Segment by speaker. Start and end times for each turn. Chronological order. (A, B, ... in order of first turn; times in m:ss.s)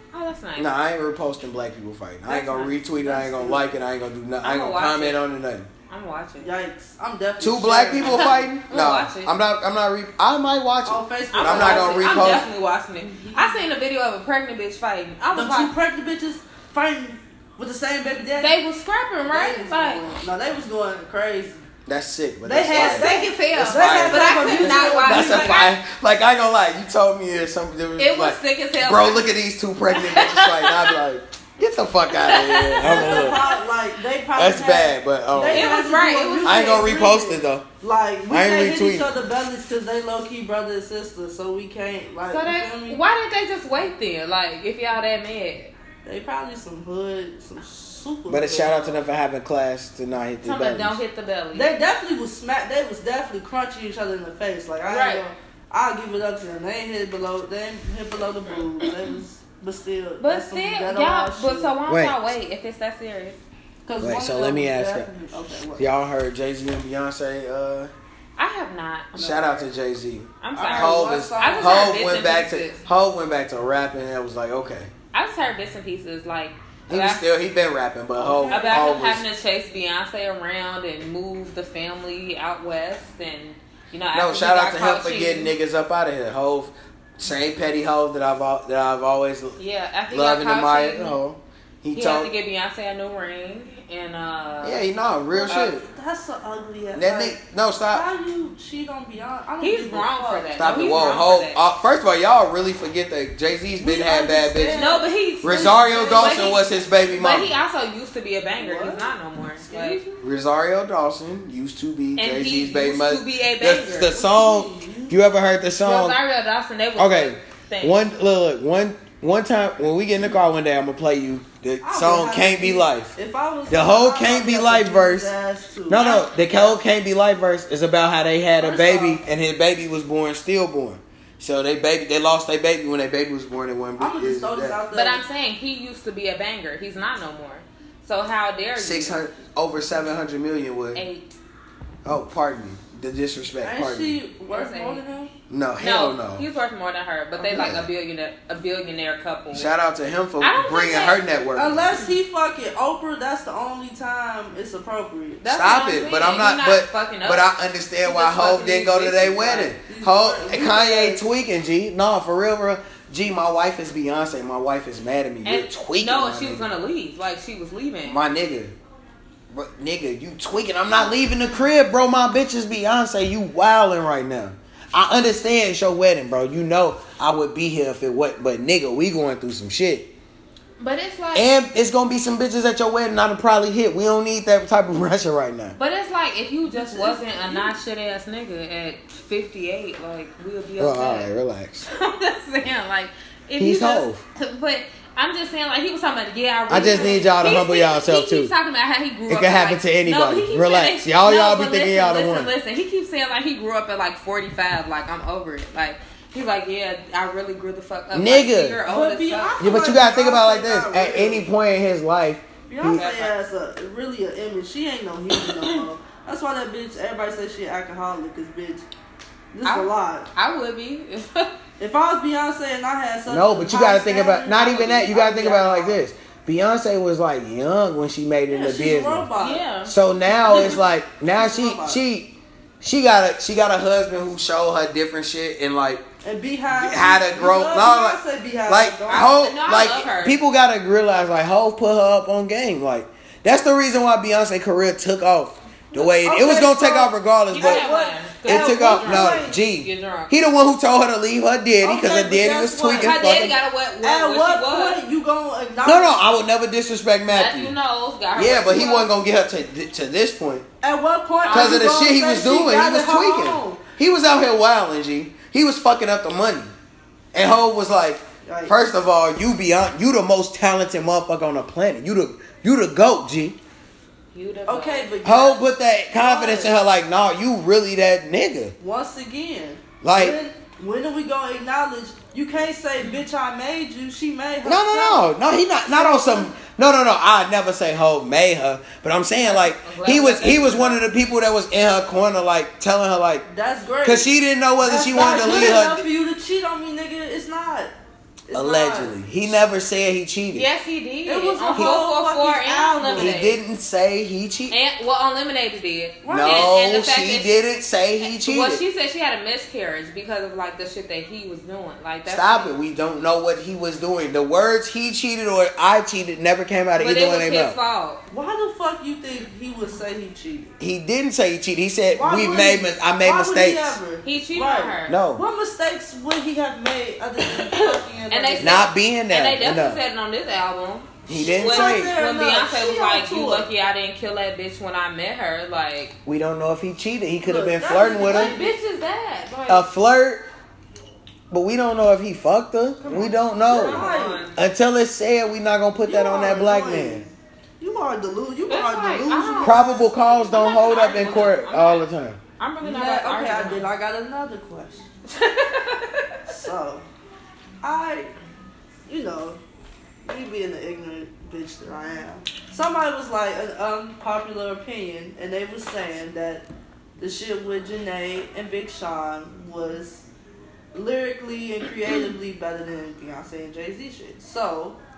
0:00.1-0:00.7 A
0:00.6-0:05.7 B
0:02.3-0:02.7 A
0:02.4-0:03.7 C
0:04.4-0:05.2 A
0:05.9-0:06.5 A
0:06.4-0:08.5 C
0:07.4-0:12.5 B
0:08.0-0:09.3 A
0:10.9-0:12.5 C
0:11.3-0:15.7 A
0:13.0-0:13.6 C
0:15.3-0:18.6 C
0:18.4-0:20.1 A
0:19.3-0:21.6 C
0:21.9-0:33.4 B
0:22.4-0:25.6 C
0:22.8-0:25.7 A
0:28.0-0:29.4 A
0:29.9-0:31.0 A
0:32.1-0:33.6 A
0:32.8-0:43.0 C
0:34.4-0:35.8 B
0:35.4-0:36.8 A
0:36.4-0:37.6 B
0:38.3-0:39.1 B
0:42.3-0:45.7 A
0:46.0-0:49.0 C
0:48.3-0:51.0 B
0:50.4-0:51.7 A
0:51.5-1:01.8 C
0:54.9-0:55.2 A
1:00.2-1:03.4 A
1:01.9-1:02.2 B
1:03.8-1:05.9 C
1:04.0-1:05.1 B
1:05.8-1:07.9 B
1:08.4-1:09.3 A
1:09.2-1:09.7 C
1:09.2-1:14.9 B
1:10.4-1:12.8 A
1:10.6-1:12.0 C
1:15.1-1:17.2 A
1:16.9-1:19.2 B
1:18.2-1:18.9 C
1:18.5-1:25.5 A
1:24.1-1:29.6 B
1:29.6-1:31.2 A
1:30.1-1:32.3 B
1:31.9-1:34.8 A
1:34.6-1:35.8 B
1:35.3-1:37.4 C
1:36.9-1:38.1 B
1:37.9-1:40.8 C
1:39.6-1:41.6 A
1:40.6-1:44.9 B
1:43.8-1:46.7 C
1:44.7-1:50.2 A
1:45.4-1:47.5 B
1:48.6-1:50.0 C
1:50.2-1:56.2 B
1:52.2-1:54.1 A
1:54.1-1:55.2 C
1:55.8-1:58.0 A
1:57.0-2:03.1 B
2:01.8-2:06.1 C
2:03.7-2:05.3 B
2:05.9-2:14.8 B
2:06.0-2:06.7 A
2:08.6-2:09.2 C
2:14.0-2:15.2 C
2:14.9-2:19.2 A
2:18.8-2:21.0 B
2:21.0-2:21.3 A
2:22.0-2:24.2 B
2:23.6-2:25.3 C
2:24.5-2:25.0 A
2:25.5-2:26.5 B
2:25.8-2:29.7 A
2:27.4-2:27.8 C
2:27.5-2:27.9 B
2:29.5-2:32.0 B
2:30.4-2:31.2 A
2:31.6-2:35.5 C
2:35.4-2:37.5 A
2:35.5-2:46.7 B
2:38.0-2:39.7 A
2:39.6-2:41.2 C
2:45.4-2:48.2 A
2:48.0-2:48.8 B
2:49.5-3:00.1 B
3:00.8-3:01.5 A
3:01.3-3:05.8 B
3:05.8-3:11.3 A
3:06.7-3:07.7 C
3:10.8-3:11.9 B
3:11.9-3:29.6 A
3:13.6-3:14.2 B
3:16.7-3:18.5 B
3:16.7-3:17.3 C
3:19.3-3:22.5 B
3:28.1-3:28.8 B
3:28.9-3:31.5 C
3:29.6-3:33.0 B
3:32.7-3:38.9 C
3:32.9-3:33.3 A
3:35.3-3:35.8 A
3:39.5-3:40.3 C
3:39.6-3:41.5 A
3:41.8-3:46.0 C
3:43.3-3:49.3 B
3:48.5-3:49.7 C
3:49.4-3:49.9 A
3:49.9-3:56.0 B
3:50.2-3:52.0 C
3:50.5-3:50.8 A
3:56.2-3:59.3 C
3:56.7-4:07.9 B
3:59.1-4:00.4 A
4:05.9-4:09.6 C
4:07.5-4:10.3 A
4:08.4-4:13.6 B
4:11.8-4:13.4 C
4:13.0-4:15.0 A
4:14.0-4:16.3 C
4:15.8-4:17.7 B
4:17.3-4:19.1 A
4:18.4-4:20.7 B
4:20.8-4:23.8 C
4:21.4-4:22.0 A
4:21.5-4:26.7 B
4:27.3-4:33.6 B
4:28.4-4:28.8 C
4:34.3-4:35.1 A
4:34.7-4:35.6 C
4:35.2-4:38.7 B
4:36.1-4:36.7 C
4:38.8-4:45.3 C
4:40.0-4:40.4 B
4:44.6-4:53.4 B
4:45.9-4:46.5 C
4:49.4-4:51.0 A
4:53.5-4:57.9 C
4:54.0-4:56.0 B
4:55.4-4:55.8 A
4:58.5-4:59.2 C
4:58.5-5:00.7 B
5:00.5-5:03.6 A
5:01.3-5:03.4 C
5:01.7-5:02.0 B
5:03.1-5:04.8 B
5:04.7-5:07.6 A
5:06.2-5:06.8 C
5:06.3-5:08.8 B
5:08.2-5:12.7 A
5:12.3-5:17.8 B
5:17.0-5:18.2 A
5:18.3-5:20.7 C
5:20.8-5:24.0 B
5:22.1-5:28.8 C
5:24.2-5:25.2 A
5:25.1-5:25.4 B
5:27.4-5:36.2 A
5:28.6-5:30.0 B
5:31.3-5:32.2 B
5:31.3-5:33.7 C
5:36.3-5:38.6 B
5:37.4-5:38.8 C
5:38.2-5:39.8 A
5:39.7-5:40.4 B
5:41.5-5:47.2 B
5:43.0-5:44.6 A
5:43.7-5:44.5 C
5:46.0-5:51.0 C
5:48.7-5:49.8 A
5:49.6-5:52.4 B
5:50.5-5:53.9 A
5:52.8-5:55.1 C
5:55.3-5:56.4 A
5:56.5-5:57.1 C
5:57.8-5:58.3 C
5:59.1-5:59.6 C
6:00.2-6:06.7 C
6:07.2-6:10.2 C
6:10.9-6:15.0 C